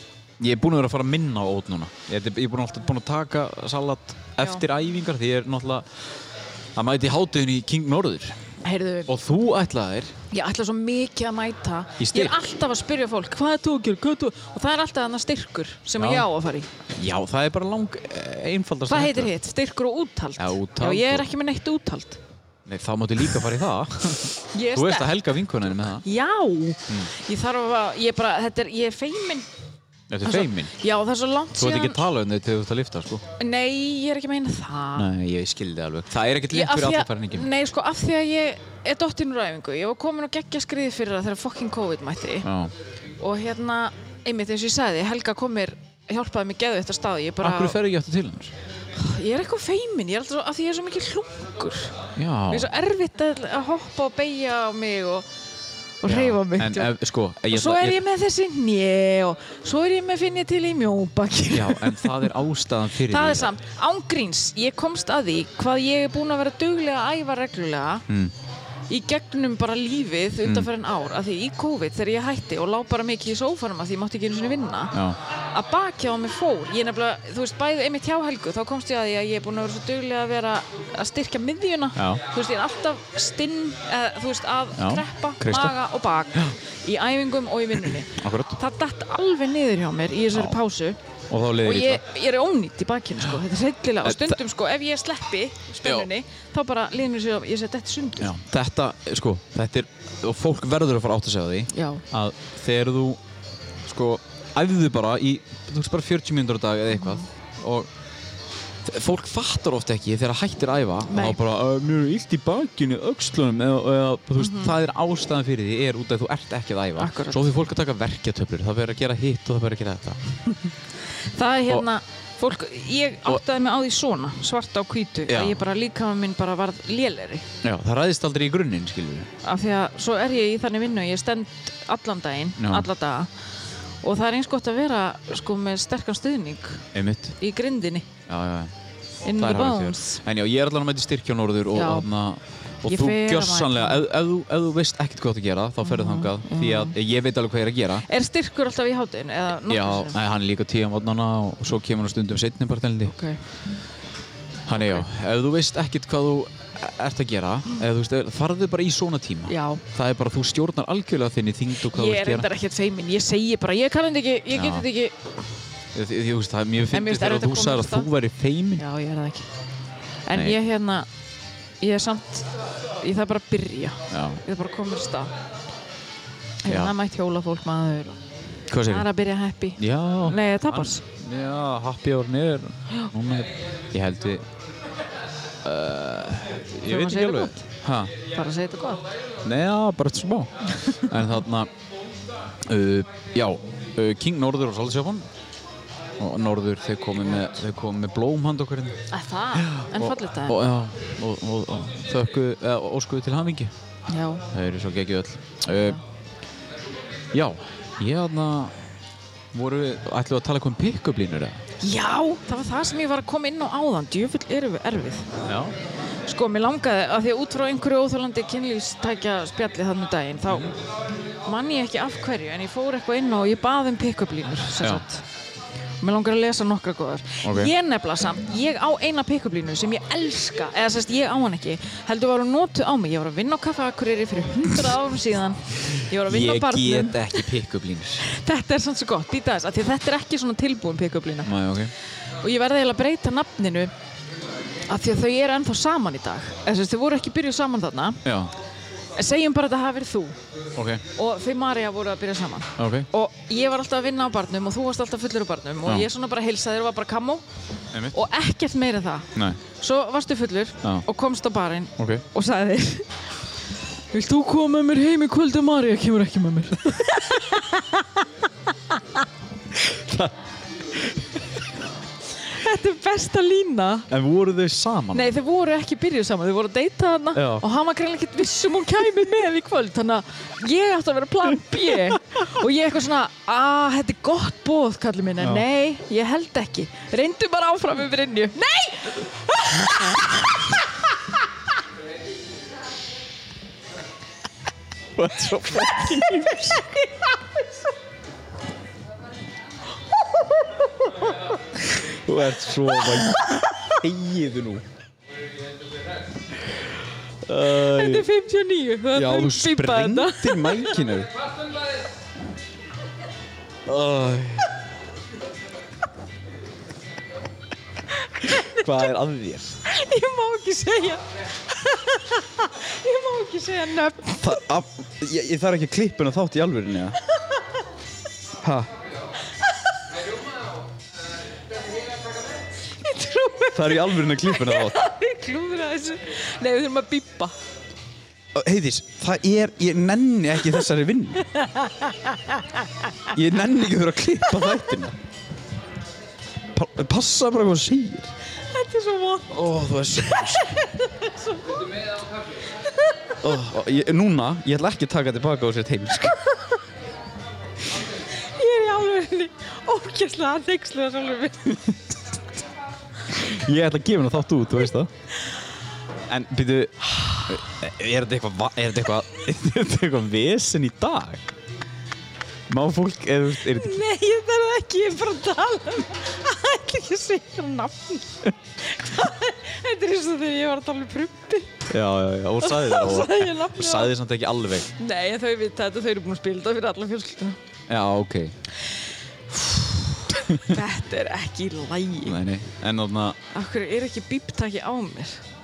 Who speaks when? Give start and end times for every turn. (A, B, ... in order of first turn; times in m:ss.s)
0:00.4-0:05.9 A
0:06.8-0:08.4 A
0:08.6-0:09.1 B
0:09.1-0:10.2 A
0:10.3-0:16.7 B
0:12.0-0:12.4 A
0:16.0-0:16.3 A
0:16.9-0:19.3 A
0:18.9-0:22.2 B
0:20.4-0:21.3 A
0:22.7-0:26.0 A
0:24.5-0:25.2 B
0:25.8-0:29.5 B
0:30.1-0:30.7 A
0:30.2-0:32.0 B
0:31.6-0:33.2 A
0:33.4-0:35.1 B
0:35.0-0:37.5 A
0:36.5-0:42.5 B
0:42.4-0:42.7 A
0:43.2-0:47.8 B
0:47.4-0:48.5 A
0:48.9-0:55.3 B
0:52.2-0:52.7 A
0:56.0-0:57.0 B
0:56.0-0:58.0 A
0:57.5-1:02.3 B
1:01.5-1:03.5 A
1:03.1-1:08.1 B
1:08.1-1:08.3 A
1:08.9-1:15.0 B
1:10.4-1:10.7 A
1:14.9-1:15.2 A
1:15.5-1:31.0 B
1:22.0-1:22.2 A
1:24.8-1:25.8 A
1:28.0-1:28.6 A
1:31.3-1:32.0 A
1:31.6-1:38.4 B
1:34.0-1:34.4 A
1:35.8-1:36.1 A
1:38.2-1:43.2 A
1:41.7-1:42.0 B
1:43.8-1:47.9 A
1:47.0-1:47.2 B
1:48.8-2:00.4 A
1:51.1-1:51.4 B
1:54.4-1:54.8 B
1:57.0-1:57.5 B
2:01.3-2:07.5 B
2:05.3-2:05.6 A
2:07.6-2:09.3 A
2:09.4-2:13.3 B
2:12.6-2:12.9 A
2:14.0-2:18.1 B
2:16.9-2:17.4 A
2:18.3-2:18.7 A
2:19.2-2:20.2 B
2:19.3-2:28.0 A
2:21.7-2:22.1 B
2:22.8-2:24.0 B
2:25.8-2:27.0 B
2:28.0-2:30.2 B
2:29.7-2:33.1 A
2:33.0-2:33.4 B
2:34.7-2:42.5 A
2:34.8-2:35.0 B
2:39.5-2:39.8 B
2:41.8-2:45.3 B
2:44.5-2:44.9 A
2:45.9-2:48.8 A
2:46.9-2:48.1 B
2:48.8-2:49.5 B
2:50.3-2:51.1 B
2:50.3-2:50.6 A
2:51.8-2:55.3 B
2:54.1-2:54.4 A
2:56.6-2:58.2 B
2:56.7-2:56.9 A
2:58.7-2:59.1 A
2:58.9-3:01.0 B
2:59.8-3:04.5 A
3:05.6-3:08.1 A
3:06.8-3:07.7 B
3:08.3-3:09.0 B
3:09.4-3:11.7 A
3:12.6-3:15.3 A
3:16.2-3:19.0 A
3:19.1-3:20.6 B
3:19.6-3:23.7 A
3:24.1-3:24.5 B
3:24.5-3:26.0 A
3:27.3-3:28.7 A
3:29.5-3:31.6 A
3:31.8-3:35.3 B
3:35.4-3:35.8 A
3:36.3-3:40.8 B
3:41.4-3:45.2 B
3:46.0-3:57.4 B
3:47.4-3:47.7 A
3:56.2-3:58.2 A
3:58.2-4:01.5 B
4:01.4-4:01.9 A
4:02.4-4:03.9 B
4:04.9-4:08.2 B
4:08.2-4:08.5 A
4:09.2-4:10.4 B
4:10.8-4:11.0 A
4:11.1-4:17.4 B
4:12.8-4:13.1 A
4:17.9-4:18.2 A
4:18.1-4:23.1 B
4:19.4-4:19.6 A
4:22.0-4:22.2 A
4:24.1-4:28.2 B
4:29.7-4:31.4 A
4:32.4-4:34.1 B
4:34.1-4:35.3 A
4:35.1-4:50.7 B
4:37.3-4:37.7 A
4:45.4-4:45.6 A
4:55.2-4:56.9 A
5:01.9-5:04.8 A
5:07.5-5:08.3 A
5:07.7-5:11.0 B
5:09.1-5:11.3 A
5:13.9-5:14.7 A
5:18.2-5:19.0 B
5:18.5-5:19.8 A
5:19.8-5:24.6 B
5:24.4-5:27.2 A
5:27.4-5:27.6 B
5:28.6-5:28.9 A
5:33.0-5:37.5 B
5:33.7-5:35.0 A
5:38.5-5:41.5 A
5:41.4-5:43.3 B
5:43.3-5:45.2 A
5:46.7-5:48.3 A
5:48.7-5:49.6 B
5:49.5-5:50.8 A
5:50.2-5:51.9 B
5:53.4-5:56.4 A
5:58.4-6:01.9 B
6:03.3-6:05.1 A
6:06.3-6:11.5 A
6:12.7-6:14.0 A
6:13.7-6:21.9 B
6:21.9-6:24.9 A
6:22.6-6:24.1 B
6:25.0-6:27.6 B
6:27.9-6:28.5 A
6:29.5-6:32.4 B
6:32.2-6:33.4 A
6:33.5-6:35.4 B